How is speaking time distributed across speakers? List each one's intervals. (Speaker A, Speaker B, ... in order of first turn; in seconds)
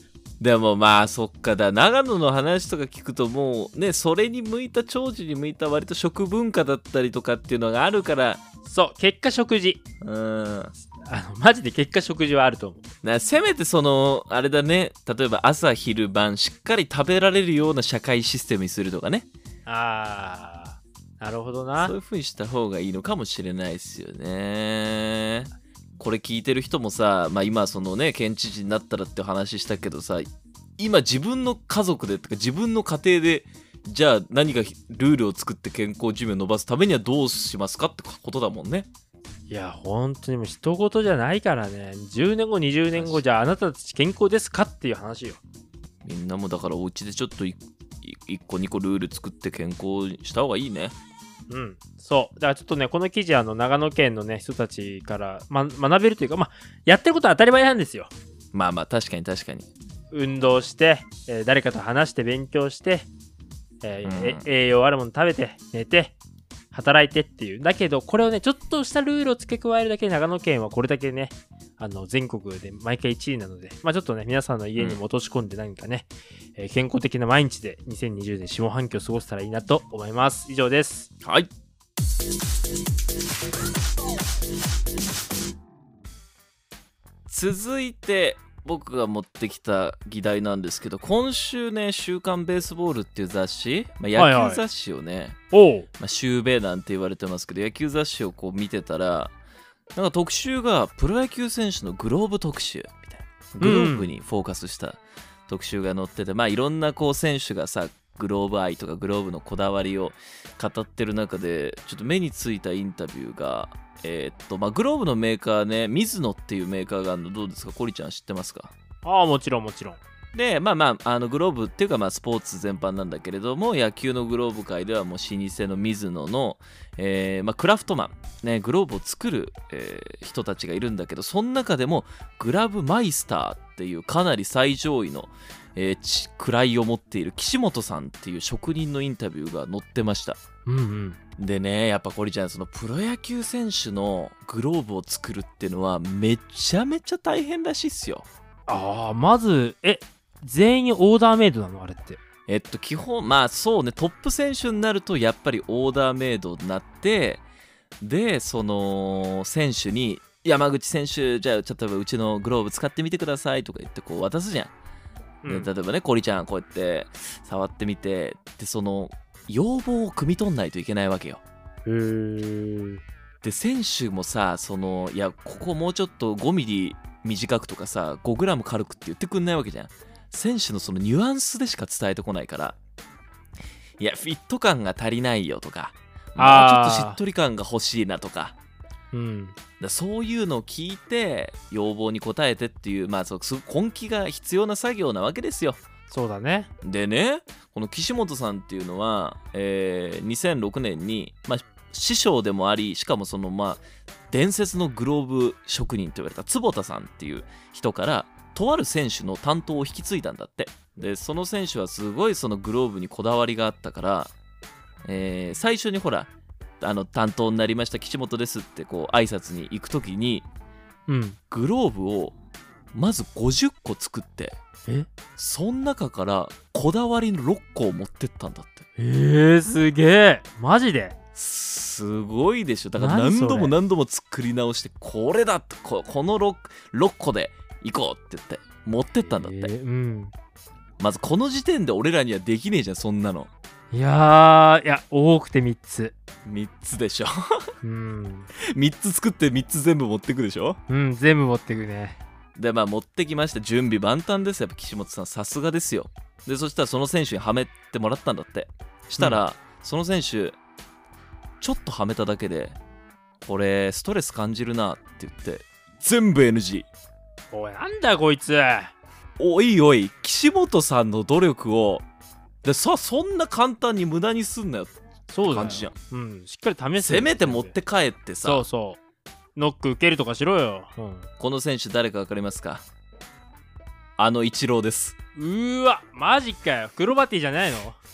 Speaker A: 0.4-8.4, 10.0-10.7, 13.0-19.3, 21.8-38.9, 42.9-43.2, 46.0-50.9, 58.5-59.7, 64.0-64.4, 81.2-81.5, 87.3-95.4, 96.0-99.3, 99.9-118.7, 120.3-140.4, 141.4-148.2, 152.5-157.4, 158.0-164.7, 165.5-171.4, 173.4-182.8, 184.0-188.5, 189.8-195.8, 196.8-214.3, 215.0-220.4, 221.5-222.3, 222.9-224.6, 225.3-228.8, 231.3-239.7, 241.0-243.5, 246.4-247.7, 248.6-250.8, 252.6-260.6, 261.6-262.8, 263.4-266.9, 269.4-272.0, 272.6-275.9, 277.0-278.6, 281.4-282.8, 284.2-285.1
Speaker B: 8.6-9.8, 10.9-12.8, 19.6-21.9, 39.5-45.4, 51.5-58.1, 60.1-63.1, 63.8-66.1, 66.7-81.1, 94.2-94.6, 95.5-95.9, 103.6-104.1, 119.0-120.0, 140.7-141.2, 148.7-152.2, 165.4-165.7, 171.8-173.0, 186.3-187.2, 189.1-189.6, 196.1-196.7, 221.1-221.4, 229.0-231.2, 233.0-233.7, 239.2-240.3, 243.9-246.1, 247.8-248.5, 250.9-252.2, 267.5-268.9, 275.3-277.7, 278.4-279.0, 279.6-281.3, 285.3-288.0